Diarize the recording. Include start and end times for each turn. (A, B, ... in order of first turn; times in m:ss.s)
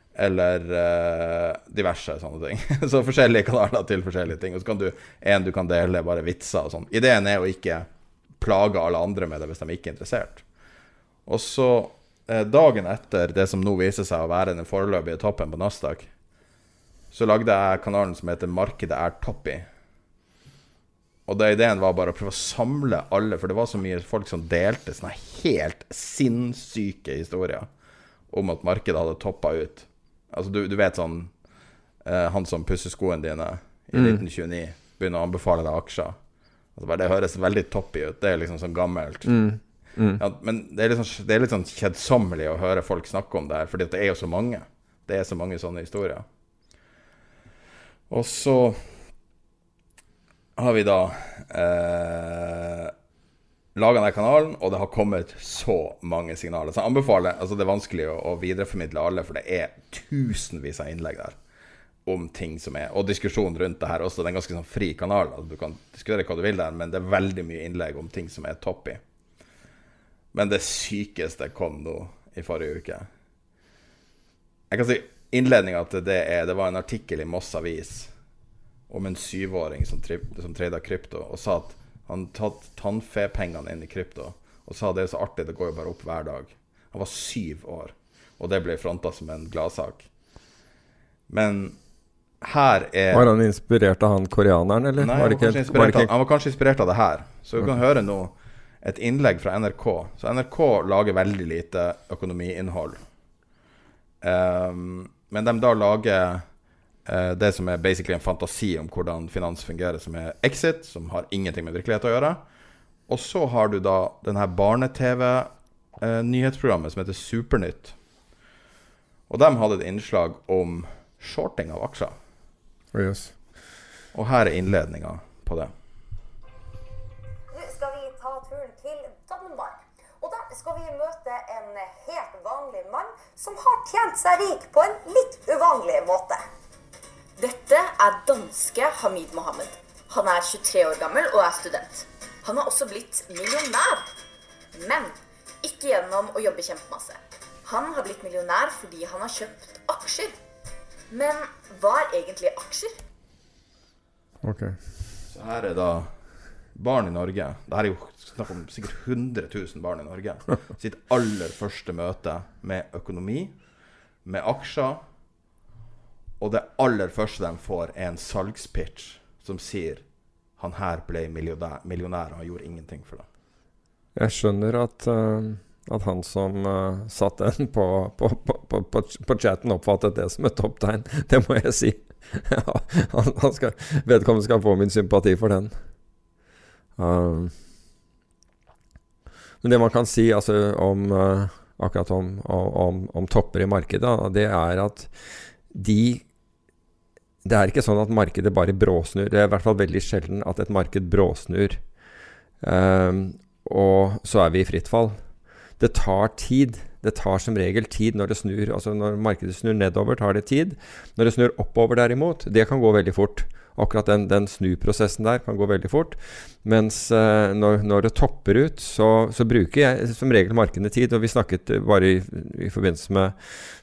0:00.1-0:07.9 A
0:08.4-0:10.4 A
0:11.2-0:16.1 A
0:17.1-0:19.7 A
0:21.3-0:27.7 A
0:28.3-0:31.3 A
0:32.0-0:36.2 A
0:33.9-0:34.2 B
0:36.8-0:39.3 A
0:39.2-0:40.2 B
0:40.2-0:46.2 A
0:48.1-0:49.0 A
0:50.6-0:52.9 A
0:53.7-1:01.4 A
1:02.0-1:09.0 A
1:10.3-1:13.1 A
1:14.7-1:18.1 A
1:18.9-1:30.1 A
1:31.3-1:31.8 A
1:32.4-1:33.3 A
1:33.1-1:36.1 B
1:35.0-1:43.0 A
1:44.2-1:46.5 A
1:47.0-1:52.4 A
1:53.1-1:58.0 A
1:59.3-2:02.1 A
2:02.9-2:03.3 B
2:04.1-2:05.7 A
2:07.5-2:16.4 C
2:17.4-2:24.1 D
2:24.7-2:30.3 D
2:31.1-2:33.0 D
2:34.4-2:34.8 B
2:35.3-2:36.1 A
2:36.7-2:43.5 A
2:44.2-2:45.0 A
2:46.4-2:50.0 A
2:50.6-2:53.2 A
2:54.2-3:05.7 B
3:07.0-3:07.5 B
3:09.6-3:15.1 B
3:15.7-3:16.2 B
3:17.4-3:21.8 B
3:22.6-3:25.2 B
3:25.8-3:43.3 B